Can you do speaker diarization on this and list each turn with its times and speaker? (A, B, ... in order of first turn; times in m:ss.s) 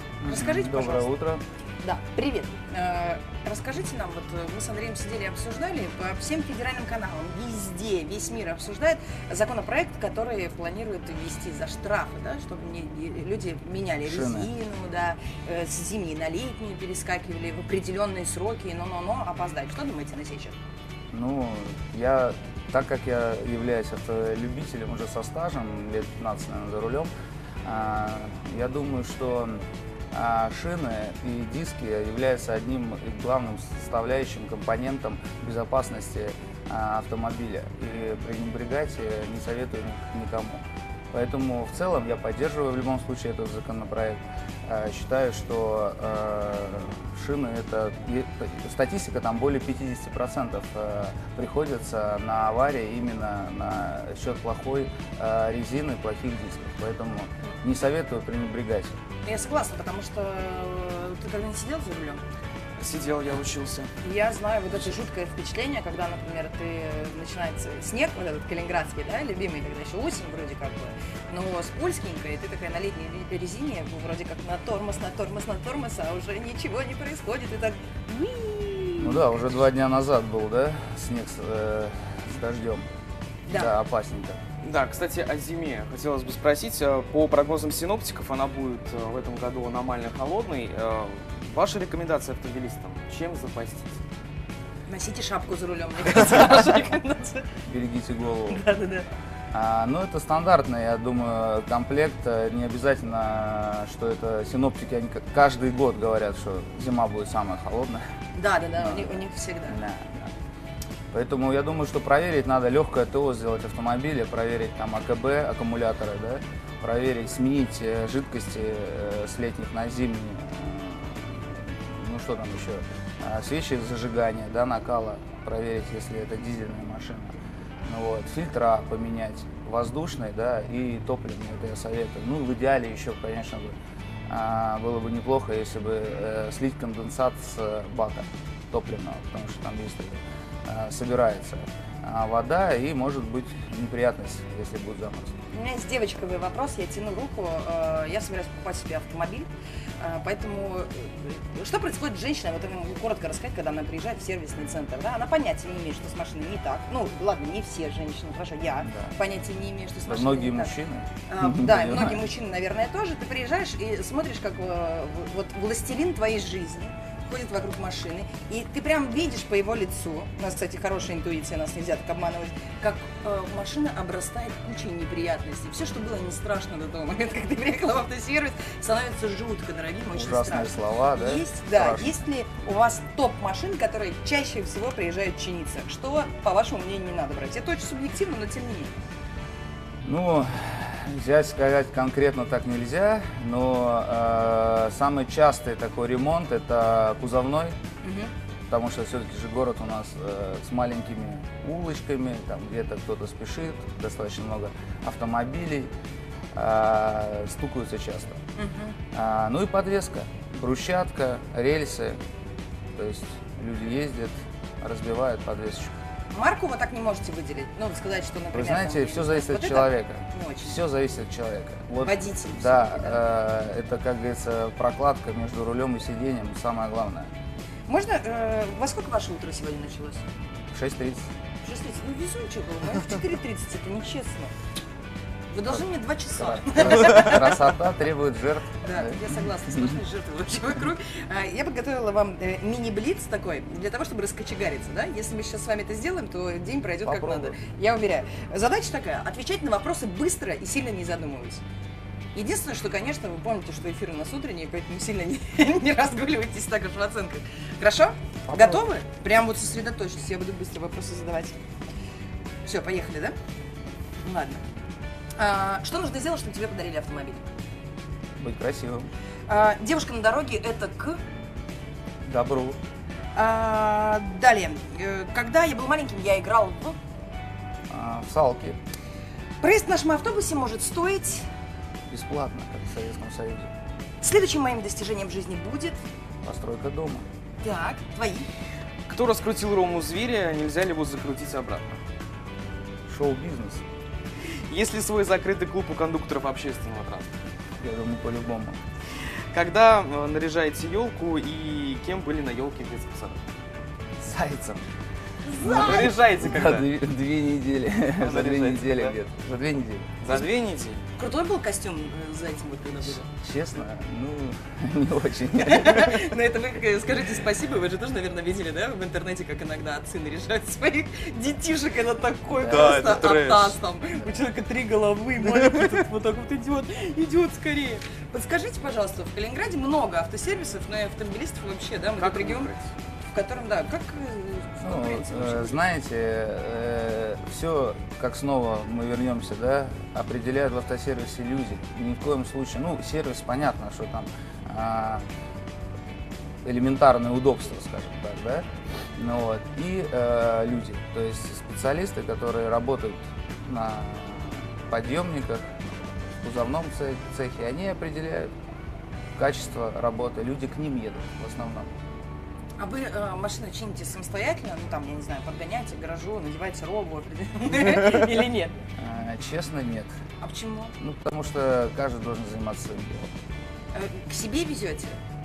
0:00.2-0:01.4 A
0:00.2-0:01.1 B
0:01.8-0:20.6 B
0:14.0-0:14.5 A
0:21.1-0:27.1 A
0:27.6-0:40.6 A
0:41.1-0:59.0 A
0:59.2-1:02.2 B
1:02.8-1:03.9 C
1:04.0-1:19.6 B
1:19.0-1:22.9 A
1:23.5-1:23.7 B
1:23.5-1:24.4 A
1:24.6-1:34.0 C
1:34.9-1:37.5 B
1:37.6-1:38.6 A
1:38.5-1:39.1 B
1:39.5-1:48.0 A
1:48.3-1:49.8 B
1:48.8-1:50.3 A
1:51.1-2:13.7 A
2:14.3-2:25.3 A
2:25.5-2:40.7 B
2:38.8-2:39.1 A
2:40.0-2:42.2 A
2:41.3-3:09.0 B
3:00.1-3:02.2 A
3:10.0-3:17.8 A
3:18.0-3:18.3 B
3:18.7-3:25.9 A
3:26.5-3:28.4 A
3:28.6-3:29.0 B
3:29.1-3:32.2 A
3:32.9-3:36.0 A
3:36.3-3:40.8 B
3:38.5-3:47.3 A
3:42.0-3:43.2 B
3:47.9-3:50.2 B
3:50.7-3:51.3 A
3:51.6-3:54.5 B
3:55.5-3:57.6 B
3:56.4-4:00.0 A
3:58.8-4:11.6 B
4:07.0-4:07.6 A
4:12.3-4:21.6 B
4:18.5-4:18.8 A
4:22.6-4:23.3 B
4:24.2-4:24.6 B
4:25.4-4:27.4 B
4:28.4-4:29.1 A
4:29.5-4:31.2 B
4:32.2-4:32.8 A
4:33.3-4:37.0 B
4:37.9-4:38.8 A
4:39.6-4:41.5 B
4:42.1-4:43.7 A
4:44.2-4:46.0 B
4:46.4-4:47.2 A
4:47.6-4:48.5 B
4:49.1-4:51.9 C
4:53.1-4:53.8 A
4:54.7-4:57.3 C
4:57.8-4:58.8 A
4:59.5-5:03.4 C
5:04.2-5:04.8 A
5:05.4-5:06.1 B
5:05.6-5:06.9 C
5:05.6-5:10.2 A
5:08.2-5:09.2 C
5:10.2-5:11.0 C
5:11.2-5:13.3 B
5:13.2-5:16.2 A
5:15.6-5:32.7 B
5:22.6-5:23.8 C
5:32.2-5:32.8 C
5:33.3-5:35.8 B
5:34.8-5:45.2 A
5:46.6-5:58.5 A
5:59.4-6:01.9 A
6:02.8-6:08.8 B
6:09.0-6:10.1 A
6:10.4-6:10.9 B
6:11.0-6:13.3 A
6:13.9-6:15.2 B